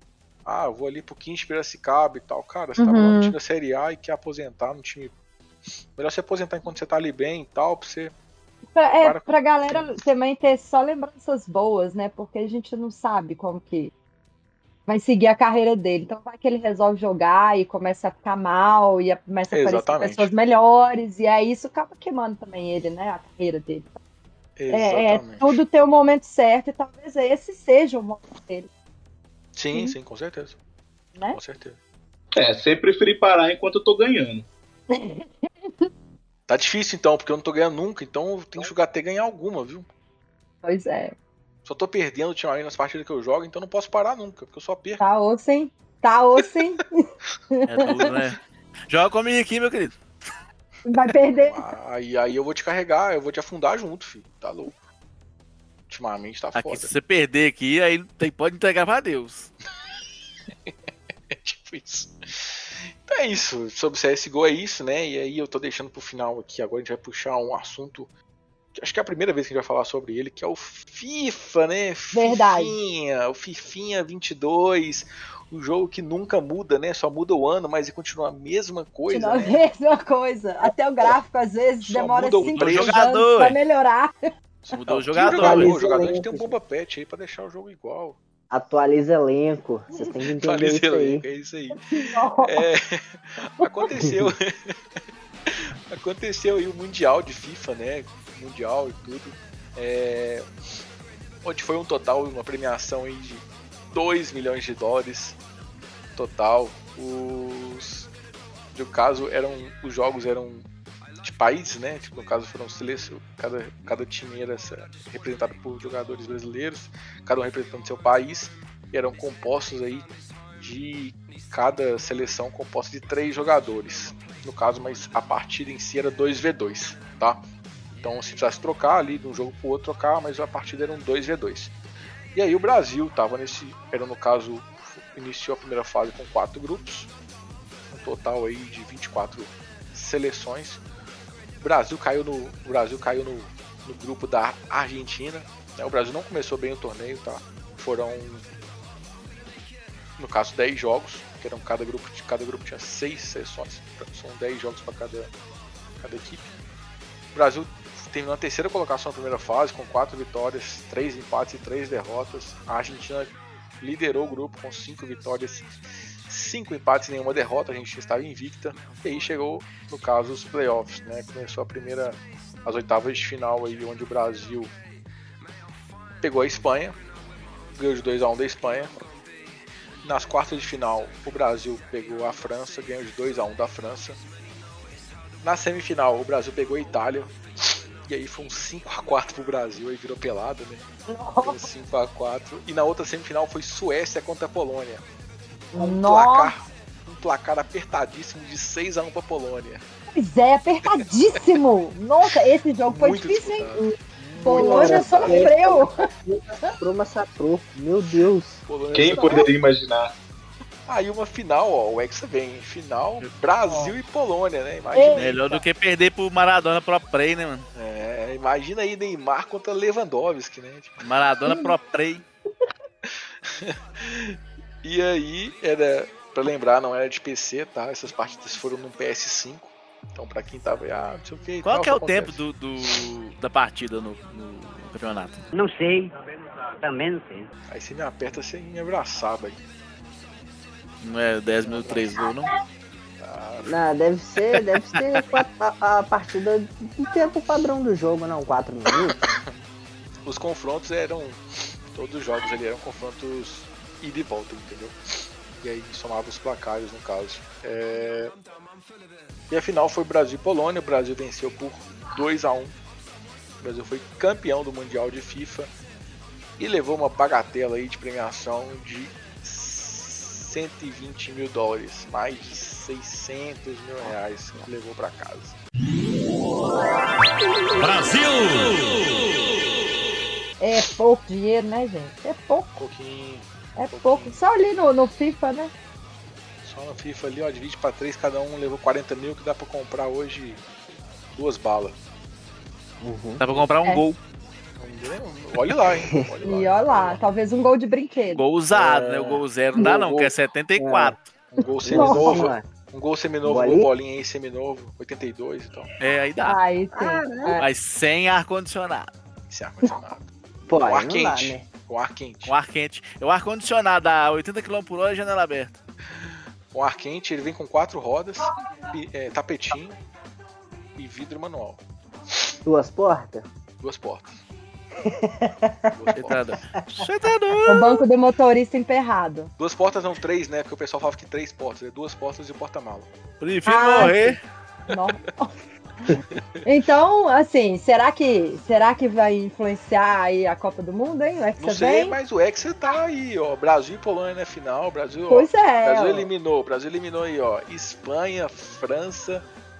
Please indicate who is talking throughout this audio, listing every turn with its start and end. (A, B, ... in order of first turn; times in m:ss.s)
0:00.4-0:05.2 A
0:02.8-0:03.3 B
0:05.9-0:08.1 A
0:08.8-0:13.9 B
0:09.0-0:10.0 A
0:14.9-0:23.9 B
0:19.5-0:20.3 A
0:24.6-0:25.6 A
0:24.7-0:28.7 B
0:29.5-0:30.6 A
0:31.3-0:31.8 A
0:32.4-0:34.4 C
0:34.9-0:35.8 B
0:36.5-0:39.9 A
0:40.6-0:41.1 B
0:41.6-0:45.0 A
0:45.0-0:47.1 B
0:47.6-0:48.4 D
0:48.9-0:50.0 D
0:50.8-0:51.6 B
0:51.3-0:54.8 A
0:55.9-0:56.9 A
0:56.5-0:59.5 D
1:01.3-1:08.1 A
1:08.7-1:19.6 A
1:12.1-1:12.7 B
1:19.1-1:24.1 B
1:21.8-1:23.0 A
1:22.5-1:23.6 D
1:24.7-1:25.7 D
1:24.9-1:28.2 A
1:25.2-1:26.6 E
1:28.5-1:31.2 E
1:30.4-1:34.7 A
1:31.8-1:32.6 B
1:35.5-1:40.5 A
1:41.4-1:45.4 A
1:46.1-1:48.1 A
1:48.7-1:50.7 A
1:51.2-2:07.4 A
2:08.0-2:11.7 A
2:12.3-2:17.1 A
2:17.9-2:20.8 A
2:21.6-2:28.4 A
2:30.2-2:35.3 A
2:36.0-2:36.5 A
2:37.3-2:45.7 A
2:46.3-2:54.7 A
2:56.2-2:57.0 A
2:57.8-2:59.0 A
3:00.0-3:04.2 A
3:05.4-3:07.4 A
3:08.1-3:10.8 A
3:11.1-3:11.7 B
3:11.4-3:15.0 A
3:15.7-3:19.8 A
3:15.7-3:16.5 B
3:20.1-3:23.8 B
3:22.9-3:25.6 A
3:24.4-3:28.6 E
3:24.4-3:26.0 B
3:28.6-3:29.5 A
3:28.9-3:30.1 C
3:29.1-3:29.5 B
3:30.9-3:35.4 A
3:33.7-3:33.9 B
3:34.9-3:35.6 B
3:35.2-3:37.6 D
3:37.7-3:41.0 A
3:41.0-3:42.2 D
3:43.1-3:53.0 A
3:51.6-3:55.4 D
3:55.5-3:57.5 F
3:57.7-3:59.6 A
4:01.0-4:02.5 D
4:01.6-4:02.2 A
4:03.2-4:03.7 A
4:03.6-4:09.2 E
4:10.2-4:15.0 A
4:15.6-4:18.3 A
4:19.5-4:22.8 A
4:23.6-4:25.7 A
4:26.6-4:35.6 A
4:40.6-4:42.7 B
4:42.7-4:44.4 A
4:43.8-4:45.7 B
4:46.6-4:50.6 A
4:51.3-4:52.0 A
4:53.0-4:53.4 E
4:53.4-4:54.2 D
4:54.8-4:57.2 A
4:55.9-4:56.6 E
4:56.4-4:58.4 B
4:58.3-5:01.3 D
4:58.7-5:00.3 A
5:00.8-5:01.2 E
5:01.5-5:05.9 A
5:01.8-5:02.6 E
5:01.9-5:02.5 B
5:03.4-5:03.9 E
5:06.0-5:06.6 D
5:06.4-5:07.7 B
5:06.9-5:07.6 E
5:07.6-5:09.1 D
5:09.5-5:10.2 A
5:10.7-5:11.7 E
5:10.8-5:12.5 A
5:12.4-5:15.7 D
5:16.1-5:20.0 A
5:21.0-5:21.8 A
5:22.6-5:23.5 E
5:23.8-5:24.4 A
5:25.0-5:26.4 E
5:25.9-5:26.6 A
5:26.2-5:28.0 D
5:27.7-5:29.5 B
5:29.6-5:33.1 A
5:33.4-5:34.4 D
5:33.6-5:34.4 B
5:34.9-5:35.5 B
5:36.3-5:36.6 A
5:36.6-5:42.2 B
5:41.6-5:49.4 A
5:45.3-5:46.3 B